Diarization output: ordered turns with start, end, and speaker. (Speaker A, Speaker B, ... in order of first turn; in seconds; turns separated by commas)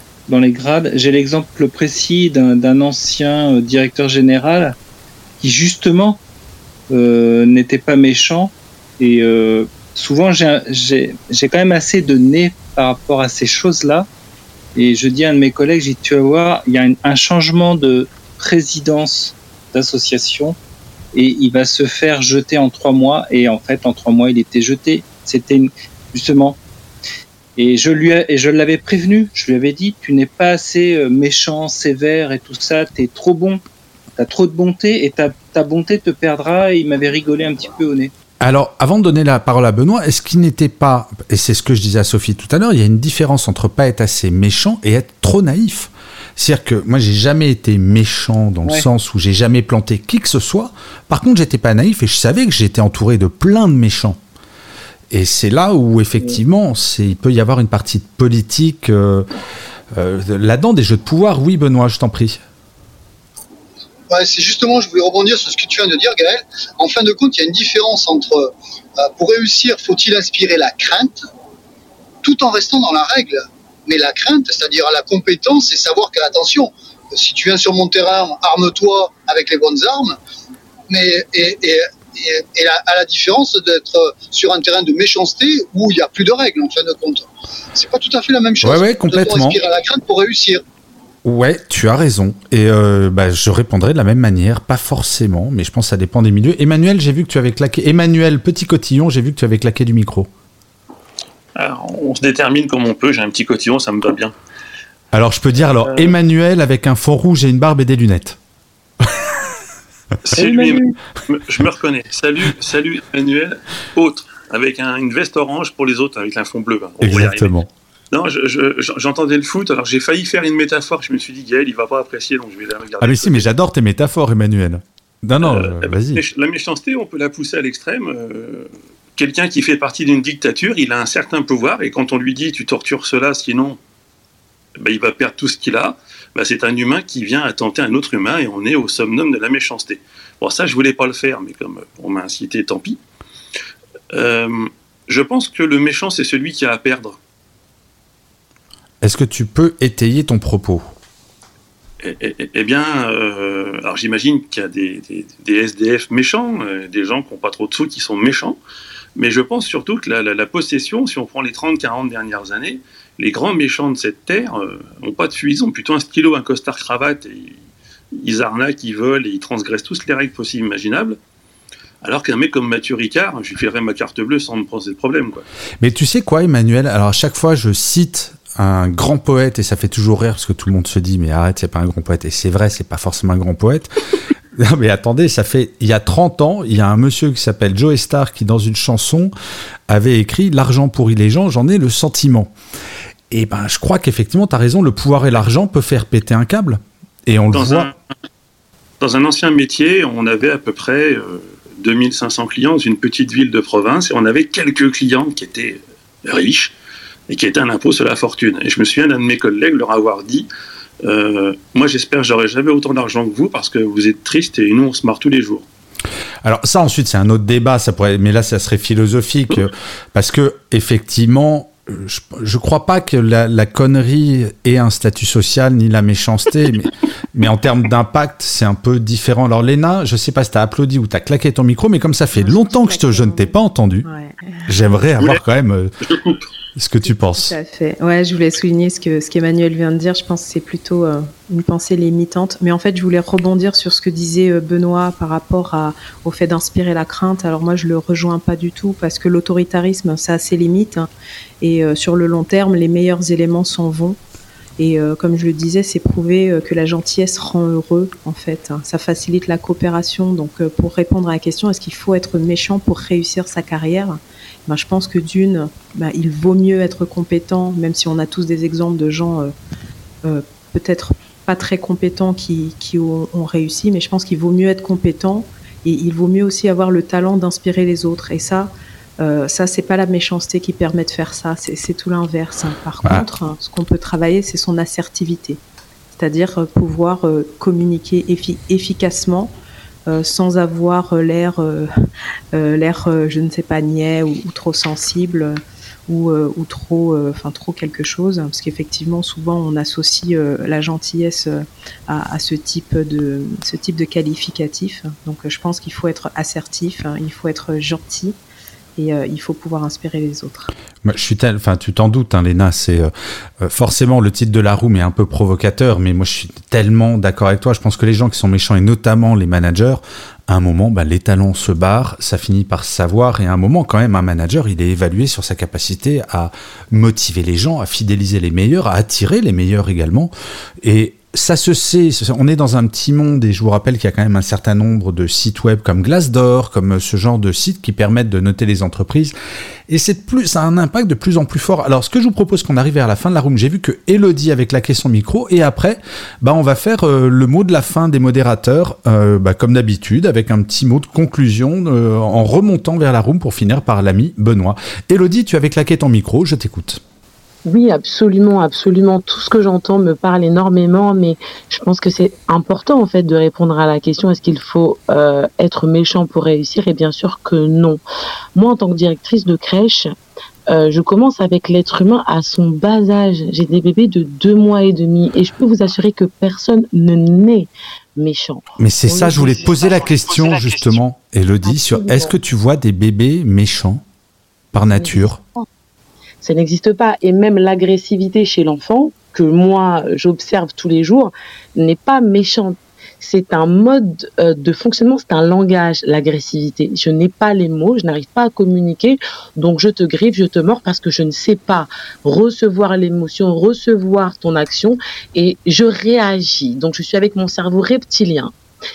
Speaker A: 0.3-4.8, Speaker A: 5.4-6.2, Speaker A: 6.9-14.1, Speaker A: 14.8-20.6, Speaker A: 21.1-26.6, Speaker A: 27.6-33.6, Speaker A: 34.2-38.1, Speaker B: 38.4-54.2, Speaker B: 55.1-59.3, Speaker B: 60.0-62.4, Speaker C: 64.1-71.2, Speaker C: 72.2-80.2, Speaker C: 80.9-90.6, Speaker B: 88.6-89.6, Speaker B: 91.2-100.3, Speaker D: 101.6-104.3, Speaker B: 105.1-108.4, Speaker D: 110.3-117.5, Speaker B: 110.3-110.8, Speaker B: 117.0-117.7, Speaker D: 118.1-123.5, Speaker B: 123.0-126.2, Speaker D: 125.4-133.8, Speaker D: 134.8-143.0, Speaker D: 144.1-147.2, Speaker B: 149.0-150.9, Speaker D: 152.0-158.6, Speaker D: 159.2-167.6, Speaker D: 168.2-171.2, Speaker D: 172.0-175.4, Speaker B: 175.8-183.9, Speaker B: 184.5-189.3, Speaker B: 189.9-192.5, Speaker B: 193.3-197.9, Speaker D: 197.5-197.9, Speaker D: 199.0-206.7, Speaker D: 207.3-210.5, Speaker D: 211.0-215.7, Speaker B: 216.4-234.1, Speaker E: 232.3-234.7, Speaker B: 234.7-236.0, Speaker D: 235.2-235.4, Speaker D: 236.0-236.4, Speaker B: 236.8-237.6, Speaker E: 237.1-251.1, Speaker E: 251.6-254.2, Speaker E: 254.8-269.5, Speaker E: 270.2-285.6, Speaker E: 286.2-289.5, Speaker E: 290.1-291.9, Speaker E: 292.5-308.4, Speaker E: 309.0-310.7, Speaker B: 311.0-339.3, Speaker B: 339.9-357.0, Speaker F: 357.7-368.0, Speaker F: 368.6-370.1, Speaker F: 370.7-380.2, Speaker B: 378.8-384.0, Speaker F: 381.6-382.3, Speaker B: 384.7-385.4, Speaker F: 384.9-385.7, Speaker F: 386.4-408.5